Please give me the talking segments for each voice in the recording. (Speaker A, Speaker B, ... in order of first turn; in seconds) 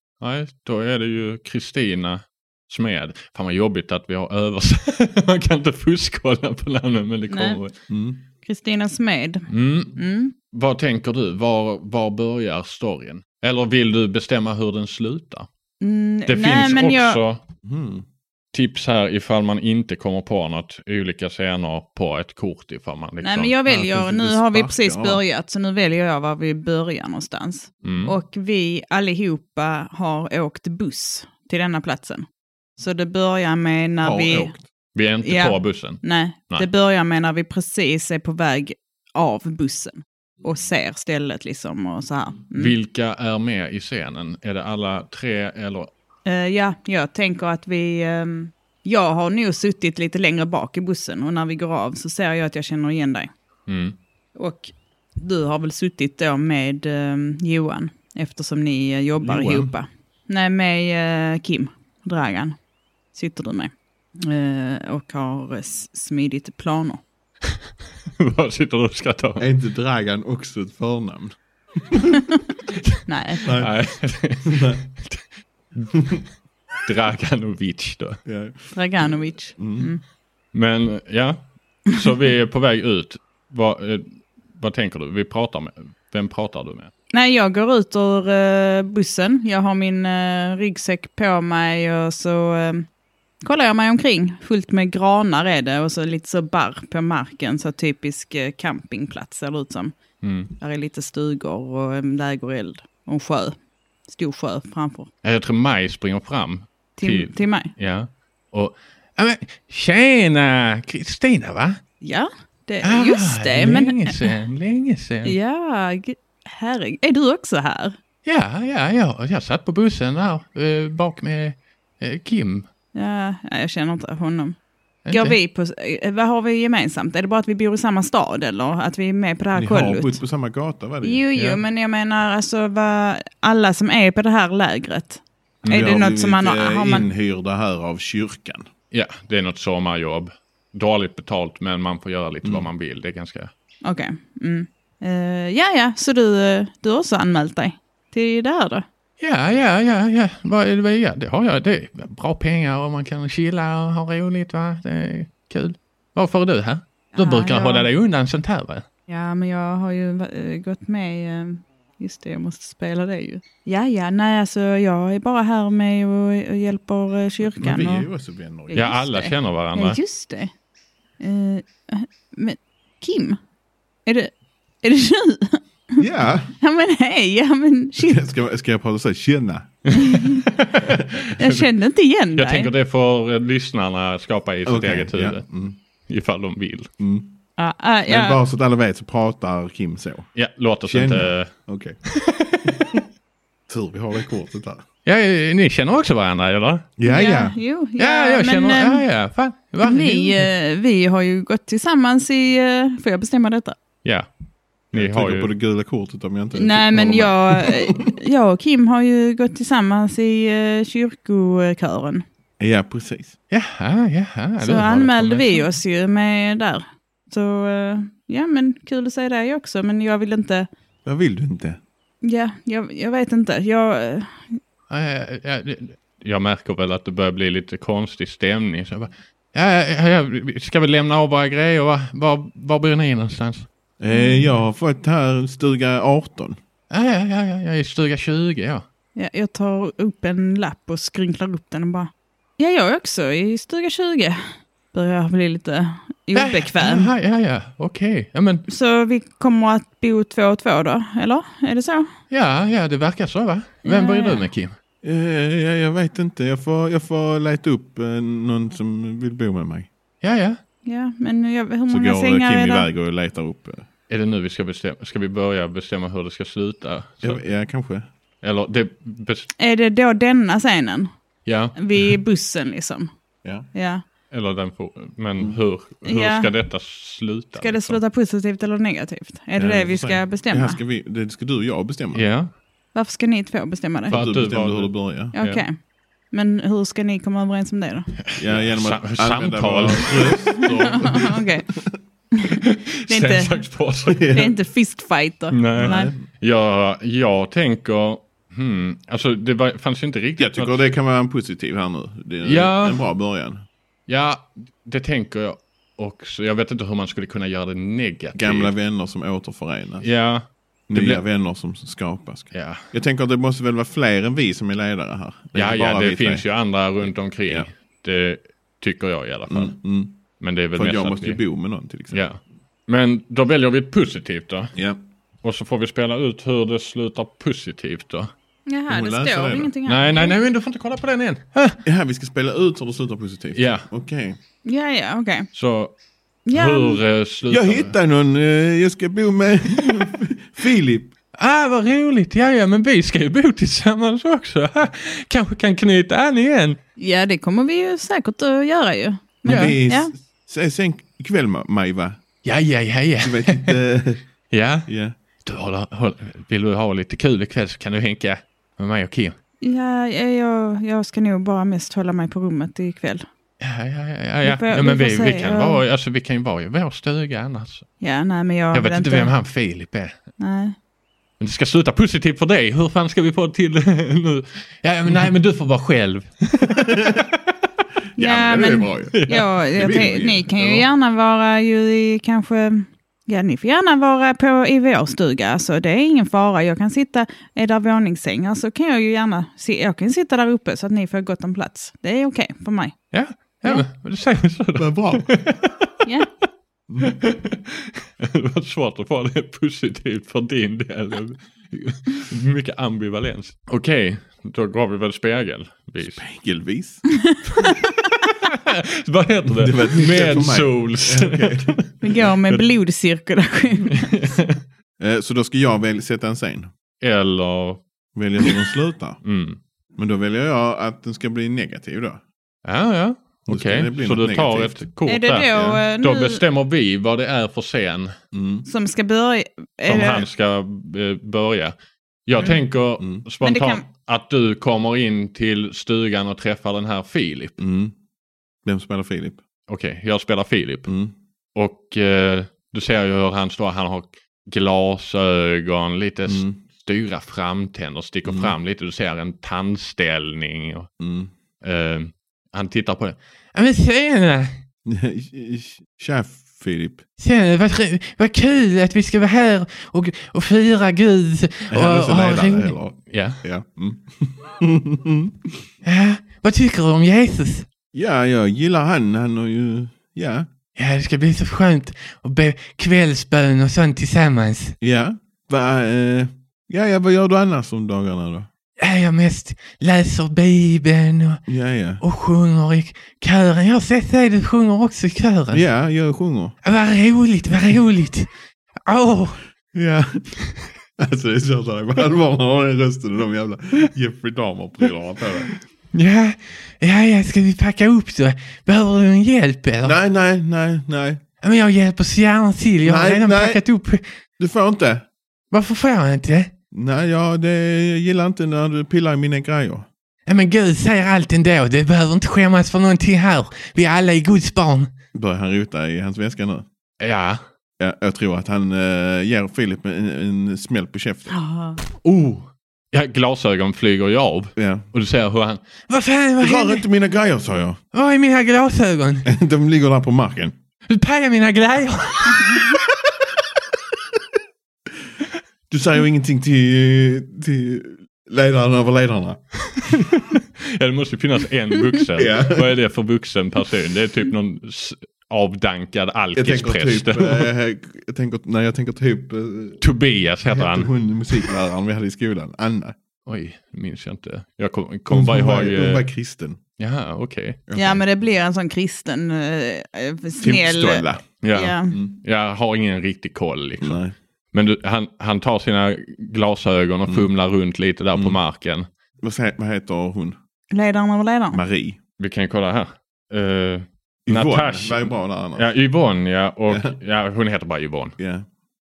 Speaker A: 0.2-7.7, 9.5-10.0, 10.5-15.5, 16.3-17.4, 18.5-23.6, 27.8-28.1, 35.0-36.7, 42.5-45.9, 53.7-54.0, 68.2-69.5, 73.5-75.2, 75.8-76.0, 76.8-78.2, 80.5-86.9, 100.2-100.5, 105.2-111.8, 112.8-115.4, 118.2-122.7, 125.0-125.4, 135.6-135.9, 138.9-143.5, 149.2-158.8, 168.7-170.0, 180.0-181.7, 182.4-185.4, 186.1-186.9, 190.4-191.5, 192.1-193.0, 195.1-196.9, 198.0-200.5, 204.0-204.3, 204.9-205.5, 213.5-215.7, 224.9-233.7, 236.9-238.8, 246.3-248.7, 252.3-254.8, 260.2-260.6, 264.1-267.4, 268.4-269.5, 271.4-272.2, 274.3-278.0, 282.1-282.5, 284.1-285.6, 288.3-291.1, 292.6-294.3, 295.5-300.8, 302.4-303.1, 304.1-308.7, 310.0-311.2, 312.5-312.9, 315.6-319.7, 320.4-321.4, 322.1-324.7, 325.4-328.3, 329.9-331.8, 333.6-333.9, 335.5-336.0, 336.5-337.9, 341.4-346.8, 349.4-349.8, 352.4-353.8, 354.5-354.9, 355.4-359.4, 363.6-367.9, 368.7-370.2, 371.4-377.2, 379.1-380.1, 393.1-396.1, 397.1-406.2, 407.6-412.6, 413.9-414.6, 417.0-417.8, 419.2-419.6, 422.6-428.1, 429.9-431.8, 432.3-437.6, 439.7-440.9, 441.6-450.9, 451.6-454.6, 457.2-463.4, 465.8-467.7, 470.8-474.8, 478.8-481.4, 482.0-485.6, 486.6-488.3, 488.9-489.5, 495.9-500.0, 501.4-504.2, 505.5-506.5, 510.3-514.9, 517.0-517.4, 522.0-526.9, 527.9-529.3, 530.9-532.8, 539.7-547.5, 549.8-551.5, 553.3-556.1, 556.8-557.6, 561.4-564.0, 564.5-568.9, 572.2-578.2
Speaker B: 7.3-7.6, 8.4-10.3, 15.8-17.2, 23.2-32.3, 32.8-34.5, 35.2-42.7, 46.3-53.3, 54.4-62.6, 63.1-67.0, 73.1-73.5, 78.7-80.0, 87.1-92.9, 93.4-100.0, 100.6-103.6, 104.1-105.1, 107.0-107.7, 112.0-114.3, 115.2-118.0, 122.9-124.6, 125.1-130.2, 131.0-137.1, 143.8-148.8, 157.2-157.9, 159.1-168.1, 168.7-170.5, 171.2-173.4, 174.1-176.0, 176.6-178.2, 179.9-180.5, 181.4-182.7, 187.6-188.4, 197.1-199.1, 199.8-203.8, 206.6-212.2, 214.6-220.7, 222.2-224.6, 234.1-234.4, 239.2-247.1, 248.7-252.1, 253.8-254.5, 260.9-262.9, 269.6-271.1, 271.8-273.1, 273.7-274.0, 276.1-276.5, 277.6-280.8, 282.9-284.2, 285.3-288.1, 290.6-291.7, 292.3-293.7, 294.3-296.1, 328.7-330.4, 334.6-335.5, 336.5-337.0, 347.0-350.1, 359.6-363.3, 364.4-365.8, 368.0-369.3, 370.4-370.8, 378.2-393.0, 396.0-396.3, 407.3-407.8, 412.0-414.2, 425.1-426.4, 428.7-430.3, 433.4-433.9, 521.3-521.8, 557.8-562.0, 570.7-571.6
Speaker C: 7.9-8.2, 17.6-18.1, 23.7-25.2, 34.0-34.7, 59.2-59.7, 69.4-72.0, 73.4-73.9, 74.4-74.8, 76.0-76.2, 78.2-78.8, 79.6-79.9, 129.6-131.2, 135.7-138.7, 142.4-142.7, 167.4-168.9, 176.0-176.5, 178.0-179.9, 180.8-181.3, 184.7-185.8, 187.0-187.3, 188.1-190.3, 190.9-192.0, 192.6-193.0, 193.7-194.8, 197.0-197.6, 204.9-208.1, 212.6-213.3, 221.1-221.8, 234.0-236.6, 255.0-259.9, 261.9-263.9, 267.2-268.1, 279.6-282.3, 284.1-285.4, 288.4-291.9, 294.1-294.5, 295.8-296.2, 300.4-303.7, 308.4-310.1, 310.9-316.4, 319.5-320.2, 320.7-322.2, 328.9-329.7, 331.9-334.4, 337.5-341.1, 349.4-352.2, 353.2-354.2, 354.9-355.2, 376.8-377.2, 378.2-380.9, 394.8-395.3, 396.9-397.2, 406.0-407.1, 409.5-411.8, 415.0-416.7, 418.1-419.2, 419.9-422.2, 423.5-424.8, 428.3-428.7, 432.4-433.2, 437.6-437.9, 438.6-439.4, 440.9-441.1, 446.3-446.6, 448.2-448.5, 451.0-451.3, 454.9-457.0, 461.7-465.6, 467.9-470.5, 474.8-478.5, 481.5-482.0, 485.5-486.6, 489.7-490.3, 491.0-495.5, 499.8-501.2, 502.8-503.6, 504.4-505.1, 506.7-509.9, 515.1-516.7, 517.8-521.4, 524.6-524.9, 526.4-527.8, 529.2-530.5, 533.6-534.2, 535.7-539.9, 542.2-542.8, 546.4-549.8, 550.5-553.0, 555.1-556.6, 557.7-558.0, 560.4-561.3, 561.9-562.2, 563.8-564.1, 569.2-570.4, 571.5-572.0, 574.3-575.7, 576.7-576.9, 578.2-578.5